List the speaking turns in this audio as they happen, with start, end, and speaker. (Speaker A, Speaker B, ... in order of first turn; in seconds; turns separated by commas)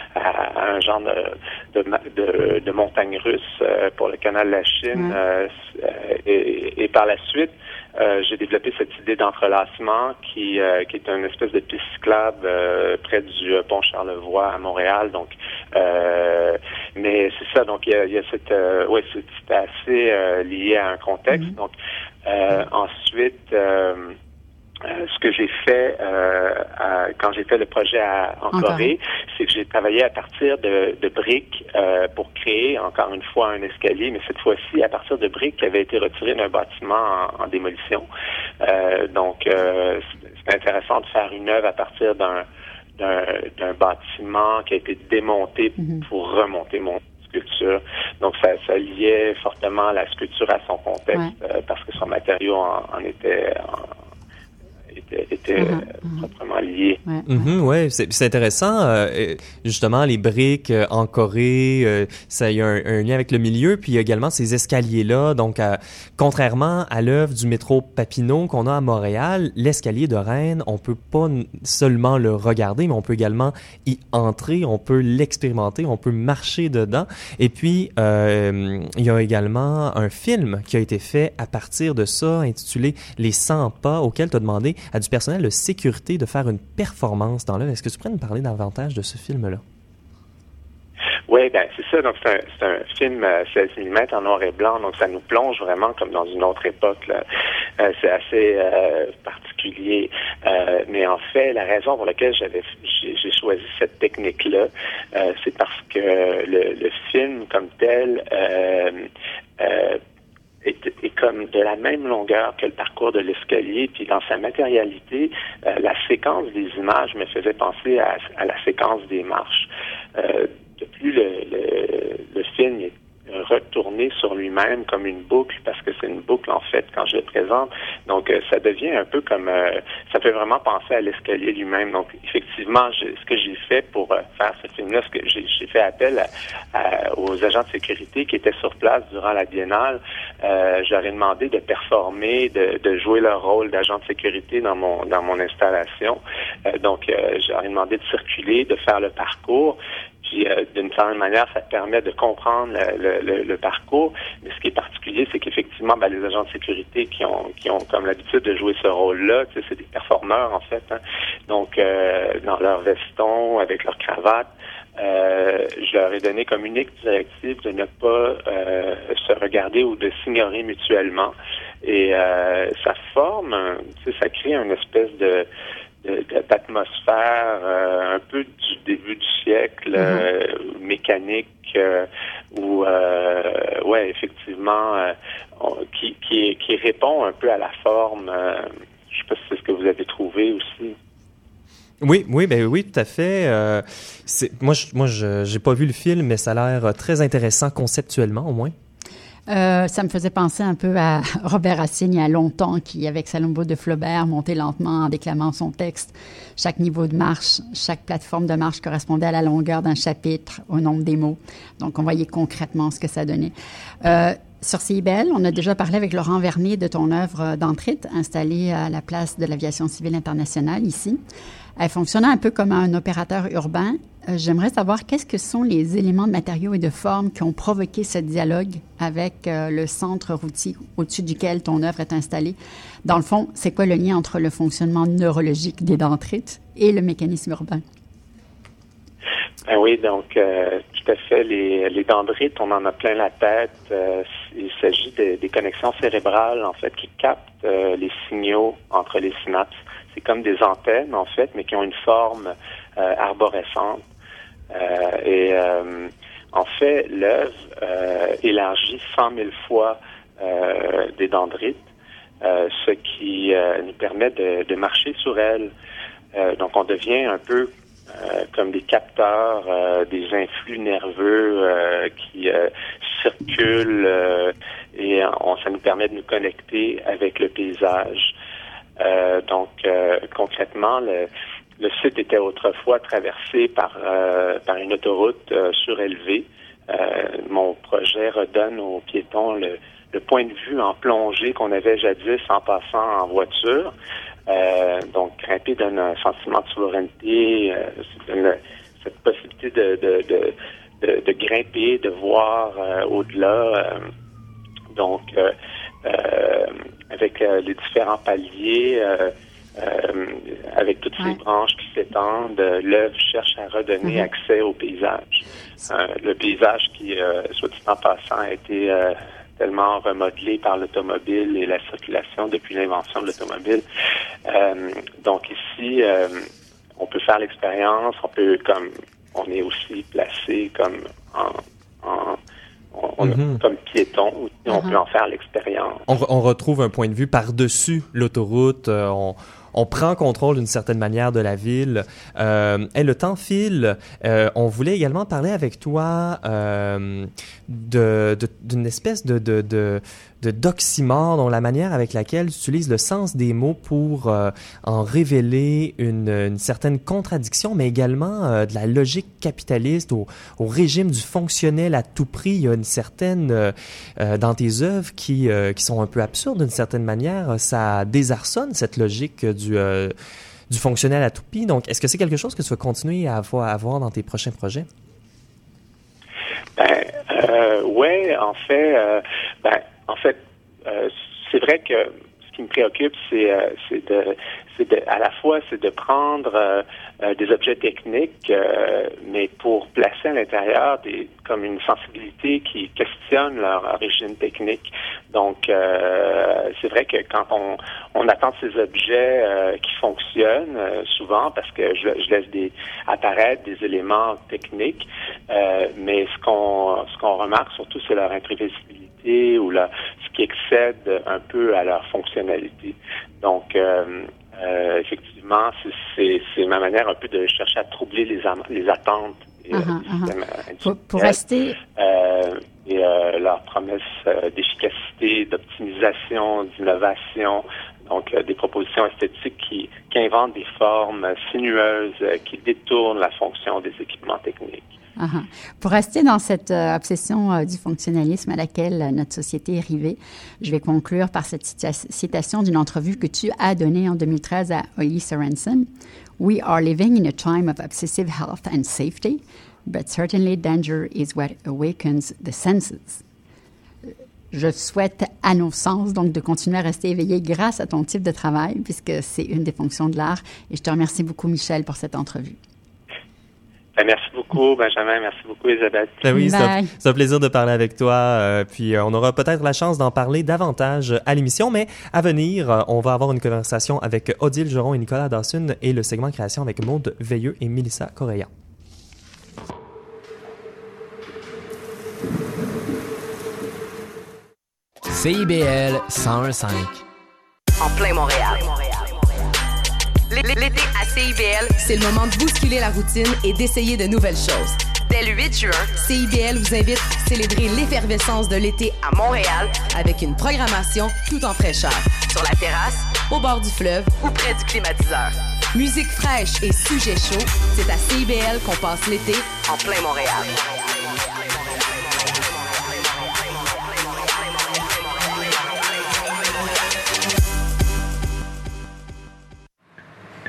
Speaker A: 0.1-21.7, Speaker A: 22.2-24.1, Speaker A: 24.8-38.0, Speaker B: 28.5-28.9, Speaker A: 38.6-42.4, Speaker A: 43.0-53.9, Speaker B: 45.8-46.0, Speaker A: 54.9-57.0, Speaker B: 55.6-56.3, Speaker B: 57.0-57.5, Speaker C: 57.3-89.6, Speaker A: 91.3-97.2, Speaker A: 97.8-109.1, Speaker A: 109.6-110.0, Speaker A: 110.6-175.5, Speaker A: 176.0-190.9, Speaker B: 180.0-180.3, Speaker C: 192.0-198.7, Speaker B: 199.5-221.2, Speaker B: 221.8-237.8, Speaker A: 239.7-254.0, Speaker A: 254.7-261.9, Speaker A: 262.4-265.7, Speaker A: 266.3-278.3, Speaker A: 279.0-281.3, Speaker A: 281.8-293.9, Speaker A: 294.5-304.1, Speaker A: 304.9-323.8, Speaker B: 314.0-314.3, Speaker A: 324.4-332.4, Speaker A: 332.9-336.0, Speaker C: 333.2-333.6, Speaker B: 334.7-335.0, Speaker C: 336.1-370.1, Speaker C: 370.7-374.9, Speaker A: 376.8-434.9, Speaker B: 419.7-421.8, Speaker B: 435.2-453.2, Speaker B: 454.5-462.6, Speaker A: 463.9-466.2, Speaker C: 466.2-478.5, Speaker B: 466.3-466.9, Speaker D: 485.1-487.0, Speaker E: 487.8-489.0, Speaker E: 490.3-510.6